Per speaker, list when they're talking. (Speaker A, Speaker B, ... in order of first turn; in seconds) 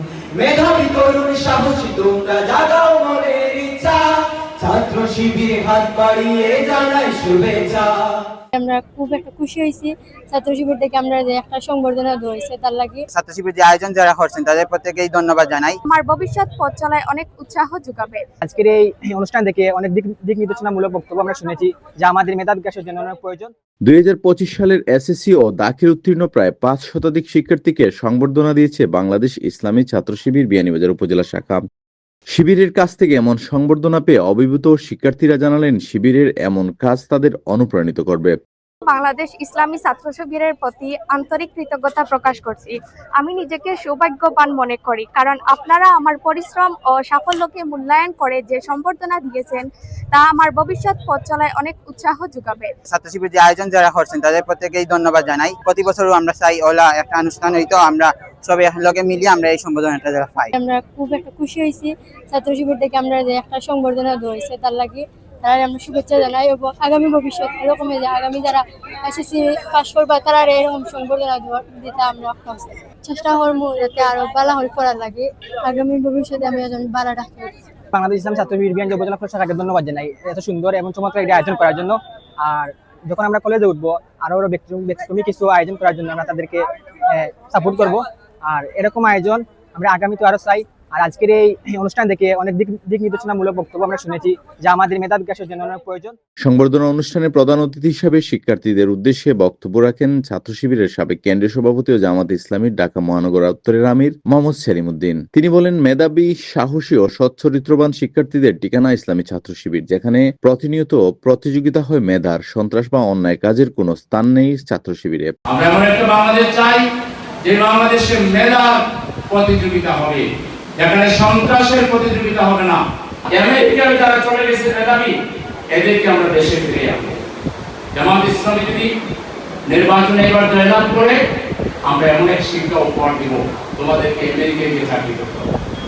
Speaker A: 0.3-8.0
Speaker B: 8.6-13.0, 60.6-77.5
Speaker C: 13.1-15.8, 52.9-60.5
Speaker D: 15.8-18.2, 38.8-52.7
Speaker E: 18.4-23.5, 77.9-96.2
Speaker F: 23.9-31.6, 32.3-38.3, 96.4-115.3
Speaker G: 115.5-116.8, 117.4-120.2, 120.8-122.8, 123.3-125.1, 125.7-127.2, 127.9-128.9, 129.7-131.2, 131.8-135.5